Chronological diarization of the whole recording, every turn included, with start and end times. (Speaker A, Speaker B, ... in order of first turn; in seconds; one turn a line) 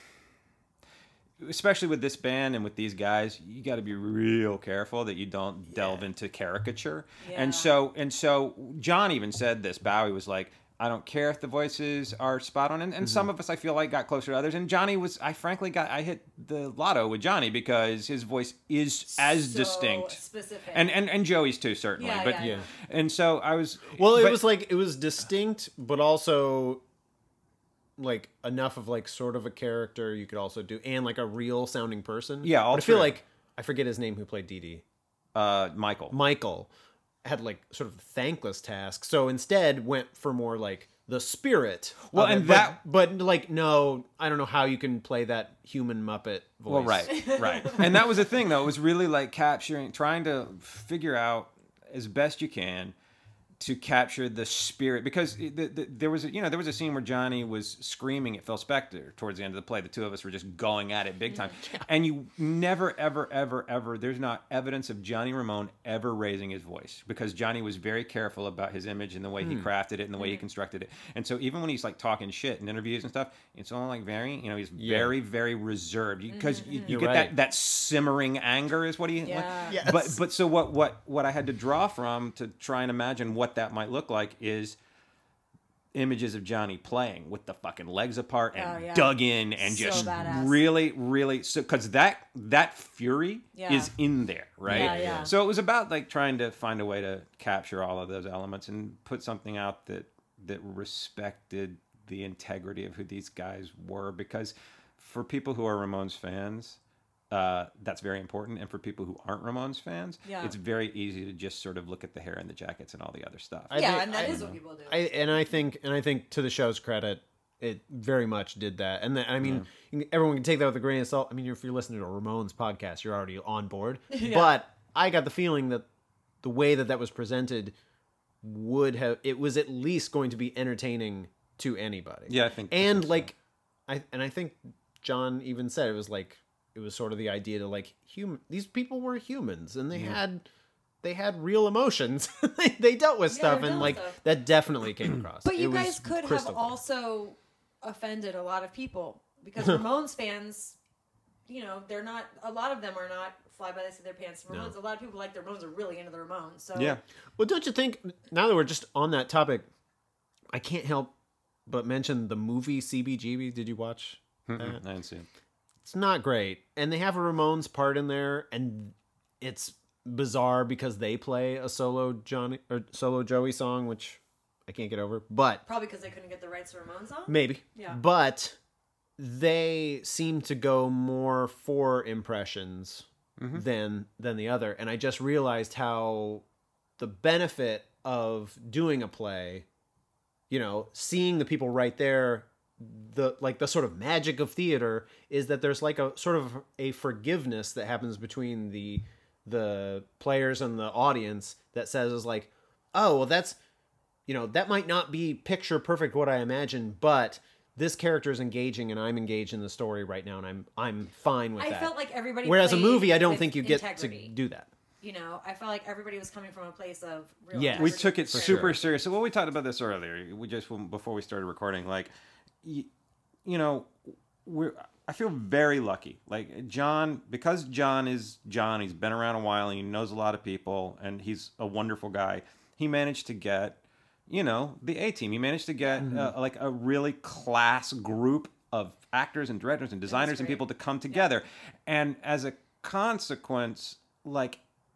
Speaker A: 1.4-20.2
Speaker B: 7.2-7.7
Speaker B: 19.1-20.9
Speaker A: 20.7-24.4
Speaker B: 22.0-22.7
Speaker C: 22.4-22.7
Speaker C: 23.9-26.8
Speaker C: 28.0-34.8
Speaker A: 32.4-33.2
Speaker A: 35.3-36.2
Speaker C: 36.1-36.7
Speaker C: 37.2-47.2
Speaker A: 42.1-42.8
Speaker A: 46.7-52.9
Speaker B: 47.1-47.8
Speaker A: 53.6-84.8
Speaker B: 61.3-61.5
Speaker C: 69.4-69.7
Speaker B: 70.2-70.4
Speaker C: 74.8-75.1
Speaker B: 76.3-76.9
Speaker C: 76.8-77.3
Speaker B: 79.2-79.8
Speaker C: 79.7-80.2
Speaker A: 85.9-106.8
Speaker B: 88.5-90.7
Speaker C: 89.9-90.4
Speaker B: 93.5-93.9
Speaker C: 94.7-95.3
Speaker B: 94.7-95.3
Speaker A: 107.3-114.6
Speaker B: 110.2-110.5
Speaker C: 113.7-125.8
Speaker B: 113.7-115.1
Speaker A: 119.4-119.7
Speaker B: 124.1-124.6
Speaker C: 126.4-127.7
Speaker C: 128.4-133.3
Speaker A: 132.3-133.3
Speaker C: 133.9-140.4
Speaker C: 141.0-146.8
Speaker B: 143.3-144.2
Speaker B: 145.4-150.8
Speaker B: 151.5-157.0
Speaker A: 156.7-157.0
Speaker C: 157.4-159.7
Speaker C: 160.5-161.1
Speaker C: 161.7-164.8
Speaker A: 164.5-165.3
Speaker C: 165.8-175.6
Speaker B: 175.7-178.0
Speaker C: 177.3-178.6
Speaker C: 179.2-186.4
Speaker A: 183.4-183.6
Speaker C: 187.0-189.7
Speaker C: 190.5-203.6
Speaker C: 204.3-214.7
Speaker B: 211.6-214.3
Speaker B: 215.0-218.9
Speaker C: 217.5-218.8
Speaker A: 217.7-222.1
Speaker A: 222.6-222.9
Speaker A: 223.4-244.6
Speaker C: 236.0-236.3
Speaker B: 240.1-241.3